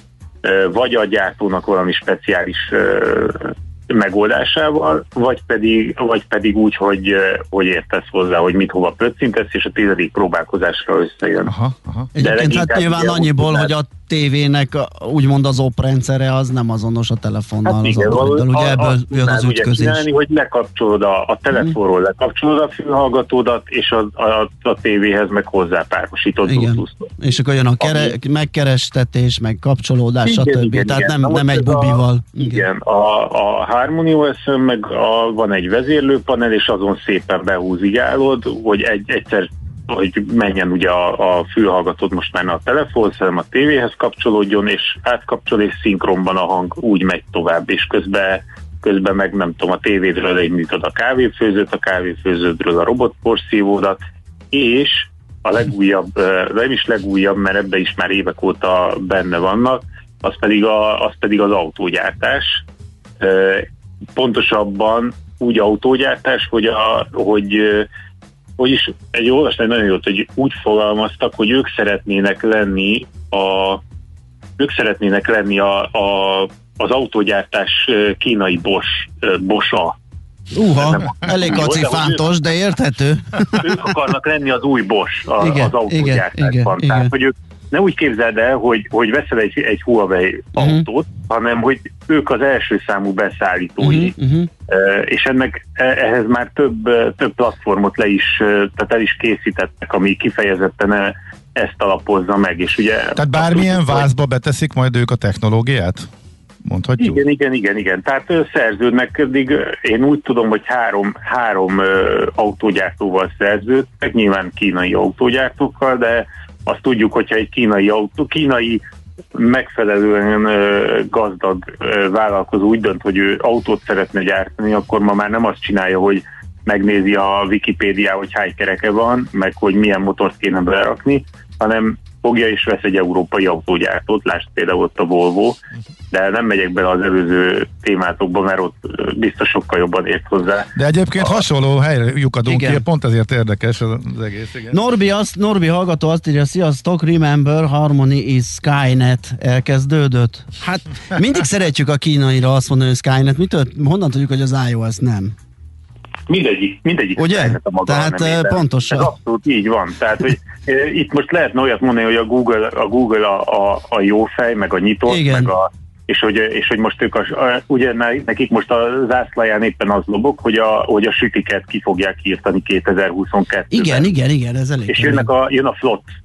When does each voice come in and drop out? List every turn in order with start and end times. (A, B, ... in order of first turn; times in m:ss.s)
0:00.4-0:11.5 A
0:11.5-0:12.1 B
0:12.1-0:20.0 C
0:12.2-0:13.7 A
0:17.6-0:27.1 A
0:26.4-0:32.6 C
0:27.8-0:28.1 A
0:30.2-0:54.0 A
0:54.5-1:02.6 A
1:03.2-1:07.9 A
1:08.6-1:13.8 A
1:14.6-1:19.9 A
1:20.5-1:23.8 C
1:20.7-1:22.2 A
1:23.5-1:34.1 A
1:25.4-1:27.1 C
1:30.6-1:30.8 C
1:33.8-1:34.5 C
1:34.7-1:44.1 A
1:43.2-1:46.1 B
1:46.6-1:47.2 B
1:47.0-1:58.8 A
1:59.3-2:15.6 A
2:16.1-2:21.4 A
2:20.8-2:24.8 B
2:22.4-2:22.8 C
2:24.7-2:35.3 C
2:36.3-2:54.0 A
2:37.2-2:39.1 C
2:45.1-2:45.5 C
2:53.7-2:55.3 C
2:54.9-2:56.0 A